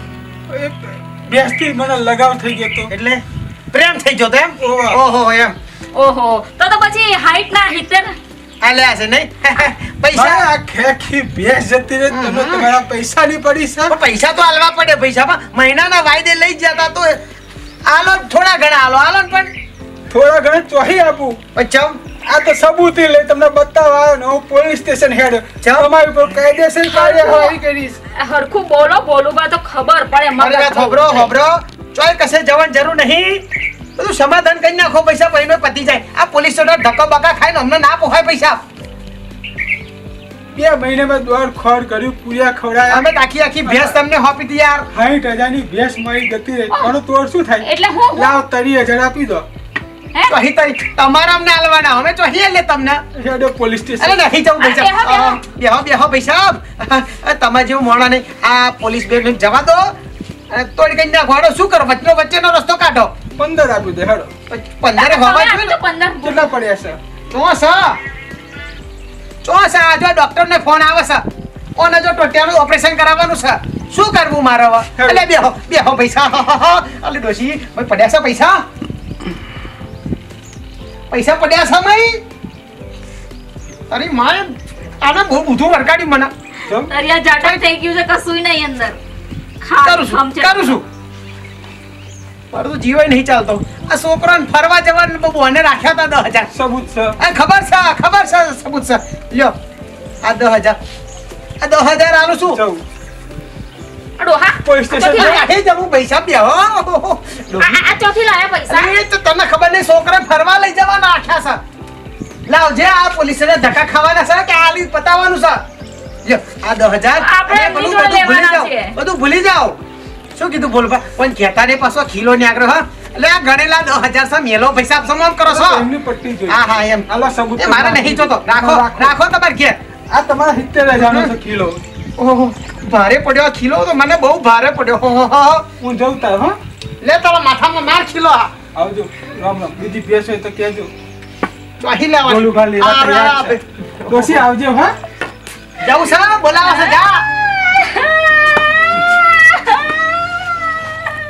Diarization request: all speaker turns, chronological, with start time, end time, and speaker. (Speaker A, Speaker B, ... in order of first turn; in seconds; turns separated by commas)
Speaker A: 0.5-2.9, Speaker B: 2.9-5.5, Speaker A: 4.6-5.0, Speaker C: 5.9-8.1, Speaker B: 8.6-10.4, Speaker A: 10.1-13.9, Speaker B: 12.1-12.7, Speaker B: 13.9-17.2, Speaker B: 17.9-19.5, Speaker A: 20.1-21.4, Speaker B: 21.5-22.0, Speaker A: 22.3-28.0, Speaker B: 25.6-25.9, Speaker C: 26.9-27.6, Speaker C: 28.1-31.3, Speaker B: 30.4-33.4, Speaker B: 34.0-38.6, Speaker A: 40.5-43.0, Speaker B: 42.9-44.9, Speaker A: 43.6-44.0, Speaker A: 44.9-49.4, Speaker C: 47.6-48.4, Speaker B: 50.3-53.0, Speaker A: 53.1-54.2, Speaker B: 54.0-59.9, Speaker C: 54.6-55.4, Speaker B: 60.5-63.1, Speaker A: 63.4-64.3, Speaker B: 64.5-65.8, Speaker C: 65.0-66.5, Speaker A: 66.2-67.0, Speaker B: 67.3-68.0, Speaker B: 69.4-71.2, Speaker B: 71.8-78.6, Speaker A: 75.0-75.2, Speaker B: 81.1-82.2, Speaker B: 83.9-86.3, Speaker A: 86.7-86.9, Speaker C: 86.8-89.0, Speaker C: 89.6-90.8, Speaker B: 89.8-90.8, Speaker B: 92.5-96.5, Speaker A: 96.5-97.2, Speaker B: 97.2-99.5, Speaker B: 100.2-100.8, Speaker B: 101.6-102.6, Speaker A: 102.5-102.8, Speaker C: 104.2-105.4, Speaker A: 104.6-105.4, Speaker B: 105.0-107.8, Speaker C: 107.6-108.9, Speaker B: 108.7-111.6, Speaker B: 112.5-115.6, Speaker B: 116.2-119.8, Speaker C: 117.2-119.0, Speaker B: 120.3-125.8, Speaker A: 125.4-129.1, Speaker B: 126.5-129.8, Speaker A: 130.1-131.8, Speaker B: 130.9-131.3, Speaker B: 132.2-135.7, Speaker A: 135.8-136.6, Speaker B: 137.0-138.5, Speaker A: 138.7-140.9, Speaker B: 141.8-144.4, Speaker A: 142.2-144.9, Speaker B: 145.8-147.2, Speaker C: 146.6-147.0, Speaker C: 147.6-150.1